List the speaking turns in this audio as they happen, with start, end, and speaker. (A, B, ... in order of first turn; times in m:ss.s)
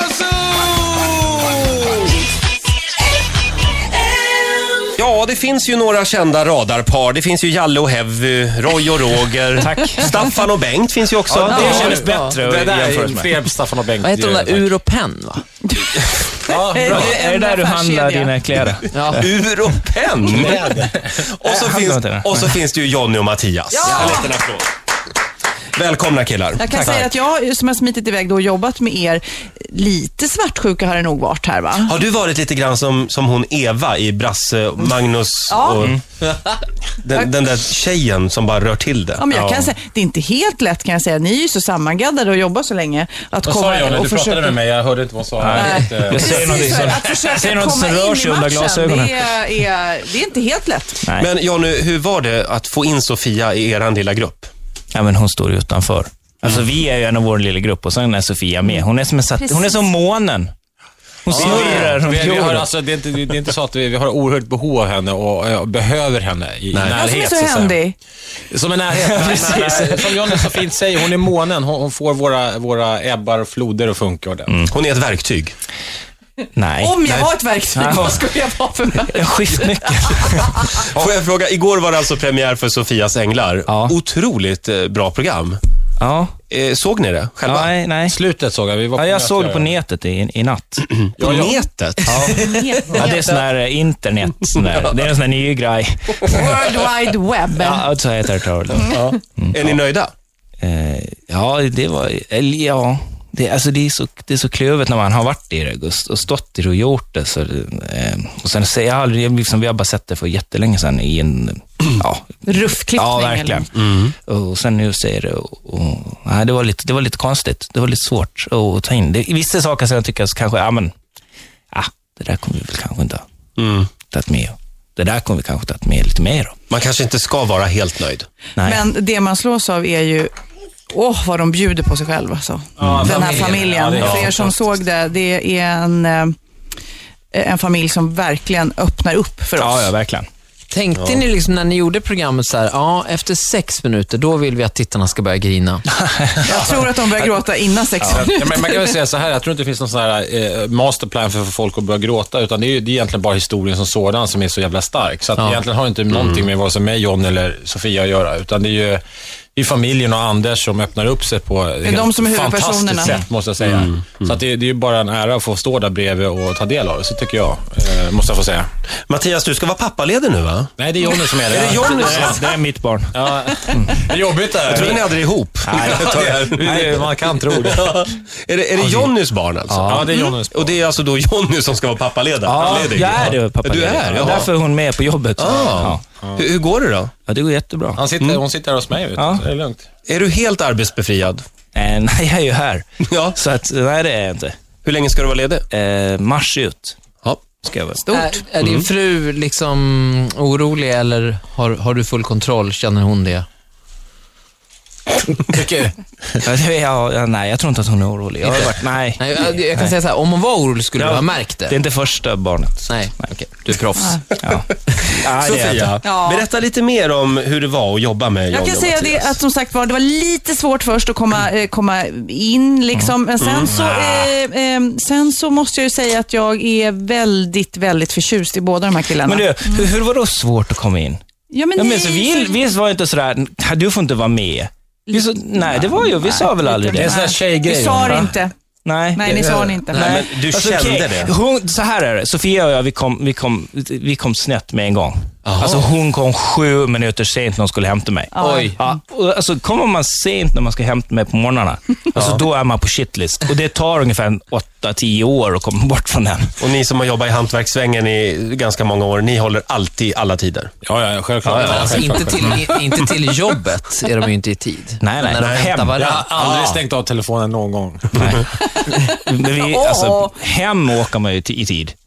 0:00.6-0:01.2 A
0:05.0-0:12.1 A
0:09.6-0:10.3 B
0:11.3-0:14.7 C
0:11.3-0:13.3 B
0:14.0-0:15.4 D
0:15.6-0:18.4 E
0:16.4-0:17.2 C
0:16.9-0:19.3 B
0:18.9-0:19.2 D
0:19.1-0:24.7 A
0:20.3-0:21.1 C
0:21.4-0:22.6 B
0:23.7-0:24.4 E
0:25.7-0:26.6 A
0:26.6-0:32.0 E
0:26.7-0:27.1 C
0:31.8-0:36.0 A
0:35.5-0:35.9 E
0:37.0-0:39.2 A
0:39.2-0:44.6 E
0:39.3-0:39.7 C
0:43.4-0:46.9 C
0:45.4-0:49.2 B
0:45.5-0:51.0 E
0:51.2-0:54.5 A
0:54.9-1:00.5 B
0:59.4-0:59.8 E
1:01.2-1:02.7 B
1:01.3-1:07.8 C
1:01.3-1:01.9 A
1:06.8-1:08.0 E
1:08.5-1:14.5 C
1:09.1-1:10.4 B
1:14.5-1:14.7 B
1:14.7-1:15.5 A
1:16.6-1:17.0 B
1:16.8-1:20.7 E
1:17.0-1:17.3 A
1:17.7-1:18.3 B
1:19.0-1:20.6 B
1:20.7-1:25.6 A
1:23.7-1:23.9 B
1:26.0-1:26.3 B
1:26.5-1:27.7 A
1:27.4-1:28.2 B
1:28.1-1:29.8 C
1:28.9-1:30.8 B
1:30.8-1:32.5 A
1:31.2-1:33.4 C
1:32.0-1:36.6 B
1:32.4-1:33.2 E
1:36.2-1:37.9 E
1:37.6-1:39.8 B
1:38.9-1:40.1 A
1:40.6-1:53.7 B
1:52.4-1:53.7 E
1:53.7-1:54.2 A
1:54.2-2:00.9 B
2:01.7-2:03.2 B
2:03.6-2:03.9 A
2:04.1-2:06.6 B
2:06.7-2:08.3 A
2:08.6-2:08.8 B
2:08.6-2:10.3 E
2:10.9-2:16.3 E
2:12.8-2:14.8 C
2:14.0-2:14.3 A
2:17.3-2:19.9 E
2:19.6-2:20.3 B
2:20.7-2:25.8 D
2:21.0-2:21.2 A
2:25.9-2:26.4 B
2:26.4-2:28.9 E
2:26.5-2:27.3 C
2:28.0-2:39.0 C
2:36.1-2:36.5 A
2:39.6-2:48.7 C
2:41.8-2:43.2 E
2:43.6-2:44.1 A
2:49.1-2:52.5 A
2:50.8-2:52.4 C
2:51.8-2:54.1 B
2:53.1-2:55.0 C
2:54.7-3:04.5 A
2:55.6-2:57.1 B
2:55.7-2:58.0 C
2:58.8-2:59.1 C
2:59.7-3:00.8 C
3:02.4-3:06.0 B
3:05.4-3:07.1 A
3:05.5-3:06.4 C
3:07.2-3:08.0 B
3:08.0-3:09.8 C
3:09.2-3:09.4 B
3:10.1-3:11.4 A
3:11.7-3:14.6 B
3:13.0-3:13.4 A
3:14.8-3:15.6 A
3:15.7-3:17.0 B
3:17.2-3:17.5 A
3:17.6-3:18.1 B
3:18.0-3:18.4 E
3:18.1-3:23.4 D
3:18.6-3:18.9 A
3:25.4-3:26.4 C
3:26.4-3:29.9 B
3:28.5-3:31.8 D
3:30.9-3:33.3 B
3:32.9-3:34.2 D
3:34.4-3:36.0 B
3:35.2-3:39.4 A
3:36.0-3:36.5 E
3:38.5-3:49.9 E
3:43.4-3:43.7 A
3:43.7-3:44.3 C
3:49.2-3:51.2 B
3:51.5-3:52.6 E
3:51.7-3:57.1 B
3:55.1-3:58.5 E
3:56.9-3:58.4 C
3:58.8-4:16.6 B
3:59.1-4:00.2 E
3:59.9-4:01.3 A
4:05.4-4:05.9 A
4:08.3-4:08.9 E
4:08.4-4:08.7 D
4:12.1-4:12.4 A
4:16.6-4:20.7 A
4:20.8-4:22.7 C
4:21.4-4:21.9 B
4:21.8-4:26.3 D
4:25.0-4:25.9 B
4:25.4-4:25.7 A
4:25.9-4:28.4 C
4:26.3-4:26.8 A
4:28.2-4:32.0 B
4:28.7-4:30.3 E